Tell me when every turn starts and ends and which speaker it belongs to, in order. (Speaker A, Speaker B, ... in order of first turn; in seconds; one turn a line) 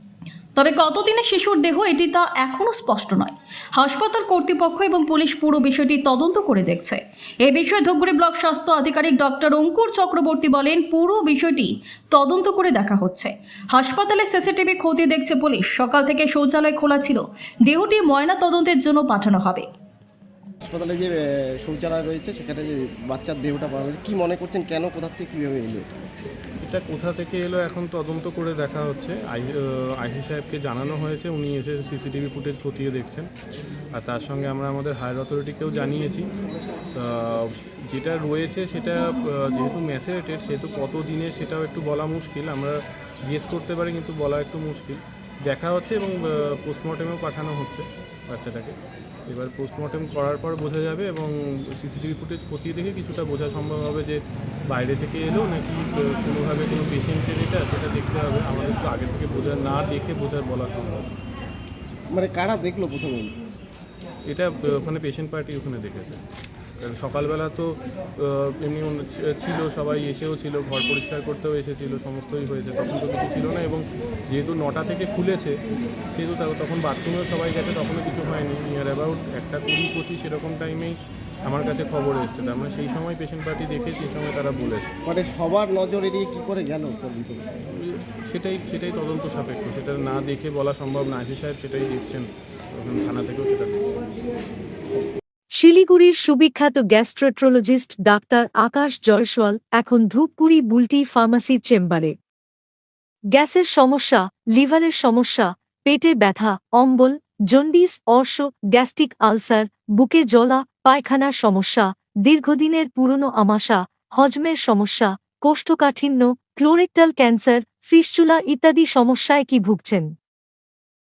Speaker A: 0.6-19.6
Speaker B: 20.7-25.9
Speaker C: 26.6-33.3
Speaker C: 33.9-36.3
Speaker C: 36.9-48.7
Speaker C: 49.3-54.2
Speaker C: 54.7-61.1
Speaker B: 62.1-63.3
Speaker C: 64.3-66.2
Speaker C: 66.8-75.5
Speaker C: 76.1-84.9
Speaker B: 85.0-87.5
Speaker C: 87.8-93.8
Speaker D: 95.5-102.1
Speaker D: 103.3-120.1